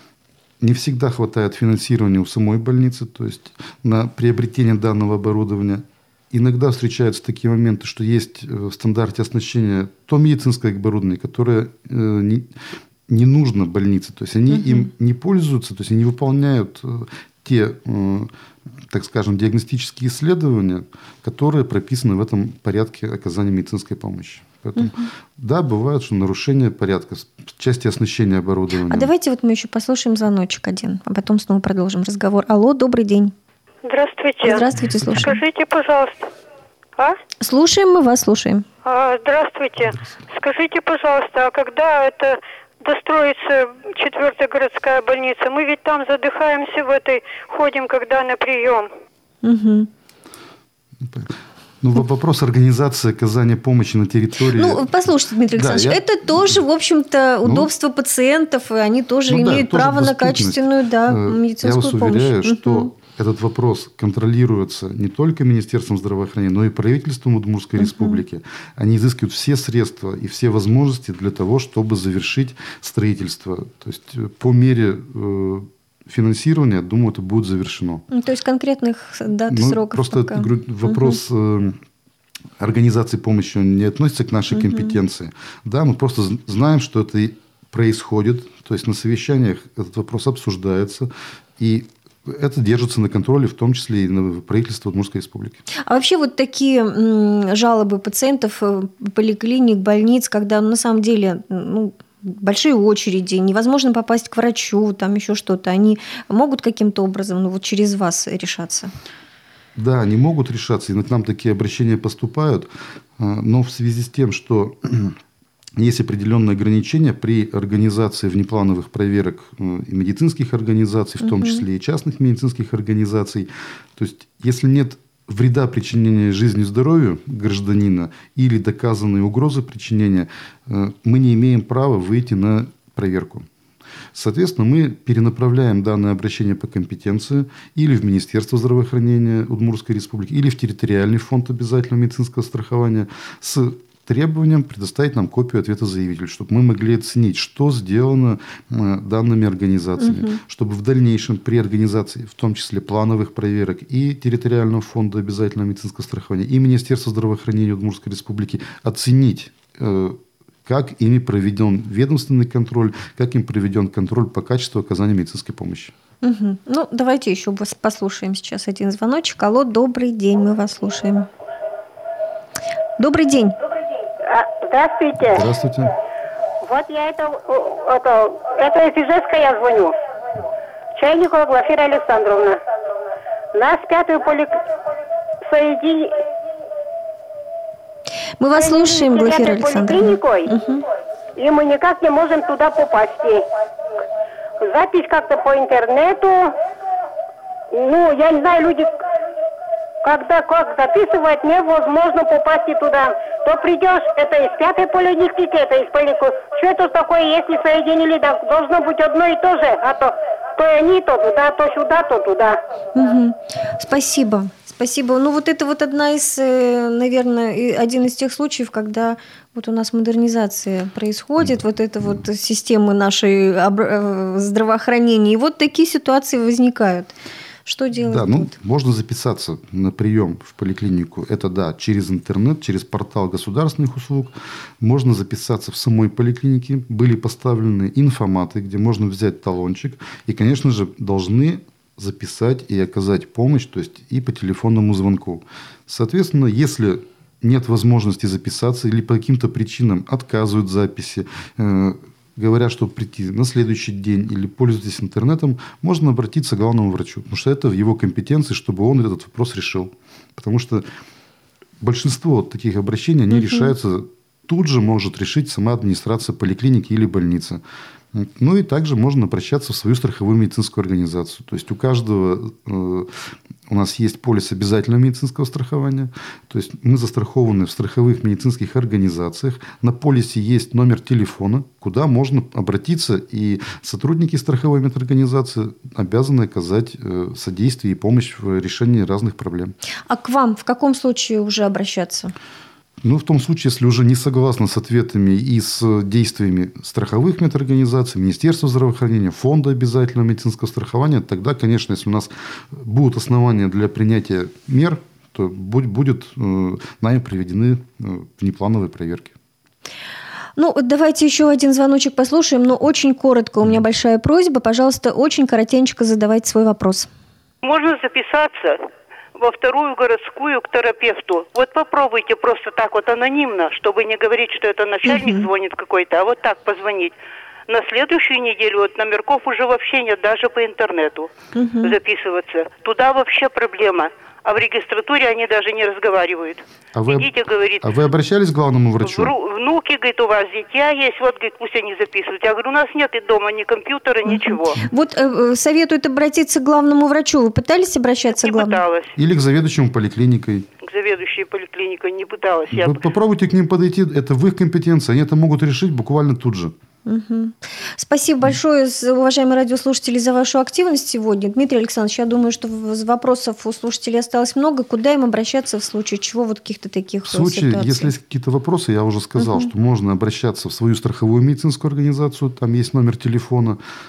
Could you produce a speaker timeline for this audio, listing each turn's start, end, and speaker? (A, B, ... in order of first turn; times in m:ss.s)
0:00.6-0:12.5 A
0:13.1-0:18.3 A
0:14.5-0:14.8 B
0:18.9-0:29.1 A
0:24.8-0:25.1 B
0:28.9-0:33.3 B
0:33.8-0:34.6 C
0:34.4-0:35.4 B
0:35.0-0:35.3 A
0:35.2-0:36.3 C
0:37.4-0:38.6 B
0:38.8-0:48.9 C
0:49.4-0:49.9 B
0:51.0-0:54.9 A
0:54.5-1:02.9 B
0:55.5-0:56.6 A
0:57.4-0:57.7 A
0:59.3-1:18.0 A
1:07.8-1:08.2 B
1:18.1-1:21.2 B
1:19.5-1:21.8 A
1:22.6-1:35.6 A
1:24.5-1:24.9 B
1:35.9-1:48.9 B
1:49.8-1:55.1 A
1:55.8-2:13.4 A
2:01.2-2:01.6 B
2:14.1-2:45.9 A
2:30.0-2:30.4 B
2:46.2-2:51.3 B
2:53.0-2:53.6 B
2:54.2-2:55.4 D
2:55.2-2:55.9 A
2:56.6-2:59.9 D
3:00.9-3:02.6 D
3:03.5-3:04.6 D
3:05.4-3:06.1 D
3:08.4-3:10.8 B
3:08.5-3:10.5 D
3:11.4-3:13.4 D
3:14.6-3:16.5 D
3:17.7-3:18.9 D
3:20.0-3:32.6 D
3:32.9-3:48.5 B
3:48.0-4:20.8 A
4:21.8-4:27.6 A
4:23.3-4:23.7 B
4:28.1-4:33.1 A
4:33.7-4:49.7 A
4:50.1-4:52.3 B
4:53.0-5:09.3 A
5:10.6-5:17.1 B
5:17.6-5:18.8 E
5:19.4-5:27.1 E
5:25.0-5:25.5 B
5:27.7-5:31.3 E
5:31.5-5:32.0 B
5:31.8-5:37.9 E
5:36.9-5:39.3 A
5:39.0-5:44.8 E
5:44.2-5:48.8 B
5:48.3-5:49.1 E
5:49.2-5:50.6 A
5:50.8-5:53.0 E
5:52.7-5:56.7 A
5:57.0-6:08.1 B
6:07.2-6:13.8 A
6:09.4-6:09.7 B